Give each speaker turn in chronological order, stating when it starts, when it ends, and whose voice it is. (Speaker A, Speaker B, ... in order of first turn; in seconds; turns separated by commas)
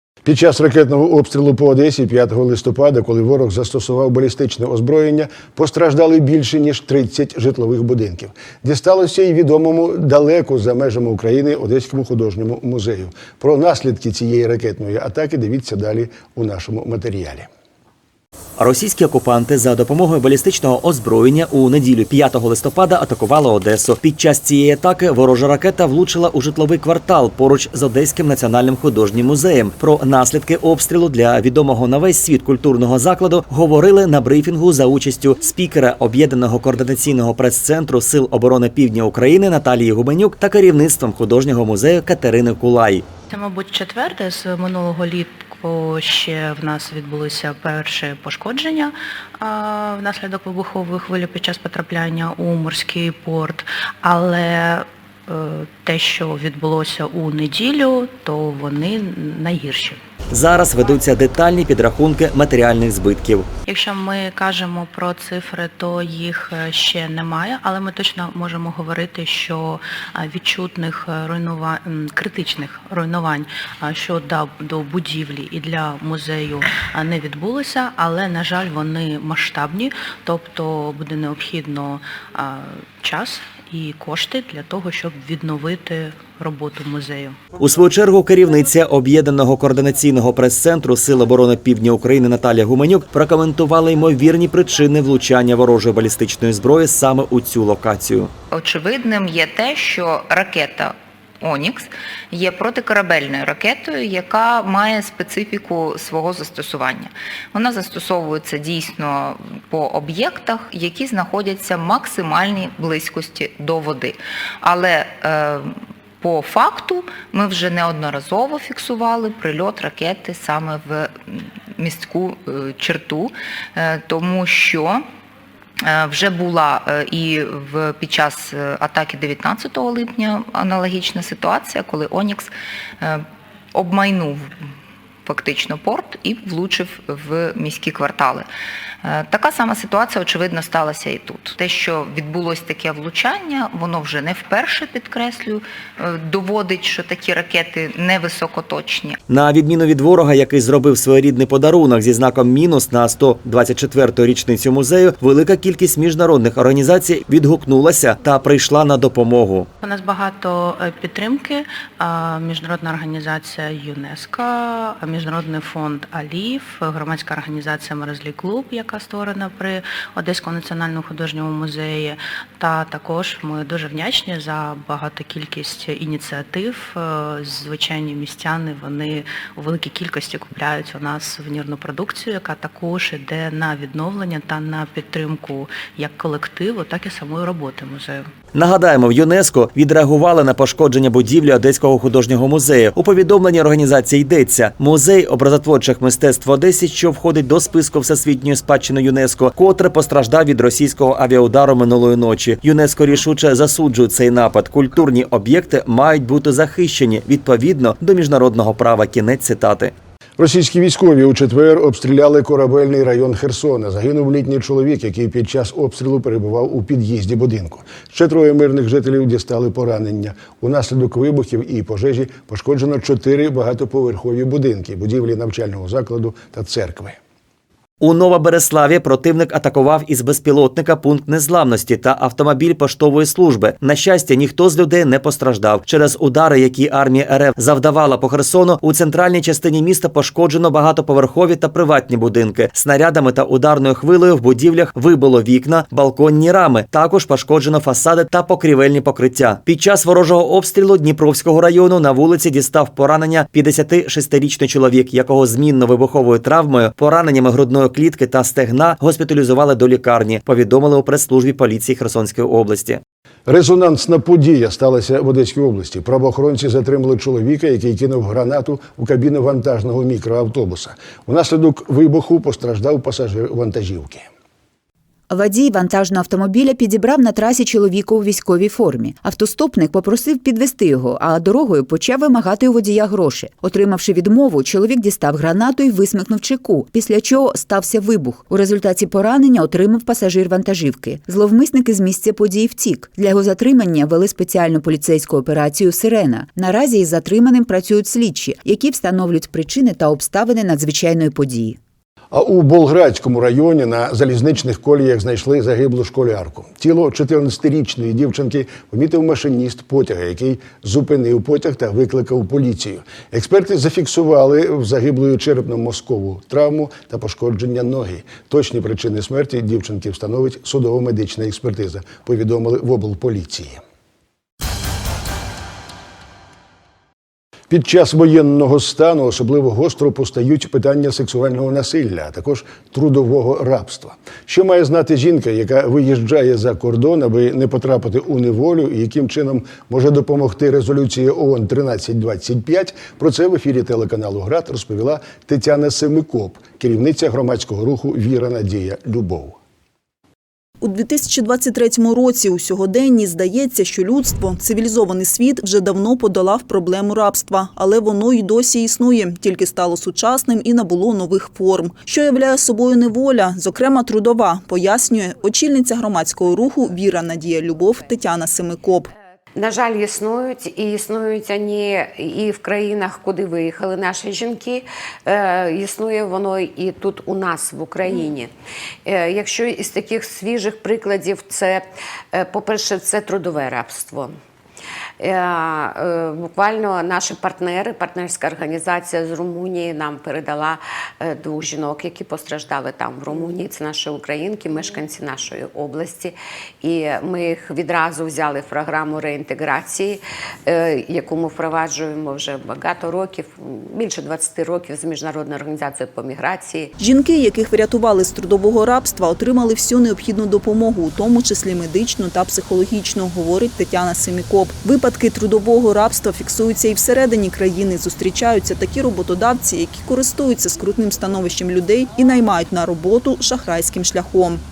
Speaker A: 0.2-17.5, Speaker B: 18.6-43.0, Speaker C: 43.3-60.0, Speaker B: 60.3-63.5, Speaker C: 63.7-87.4, Speaker B: 87.6-98.3, Speaker D: 98.5-125.0, Speaker D: 125.8-134.6, Speaker D: 135.2-138.5, Speaker D: 139.0-149.2, Speaker B: 149.3-159.7, Speaker C: 159.8-188.3, Speaker B: 188.5-209.9, Speaker A: 210.4-227.2, Speaker B: 228.0-263.0, Speaker A: 263.5-274.3, Speaker E: 275.3-301.8, Speaker A: 302.3-323.8, Speaker A: 327.7-349.6, Speaker F: 350.8-369.1, Speaker G: 369.5-378.5, Speaker G: 379.1-384.3, Speaker G: 385.2-406.9, Speaker F: 407.0-424.6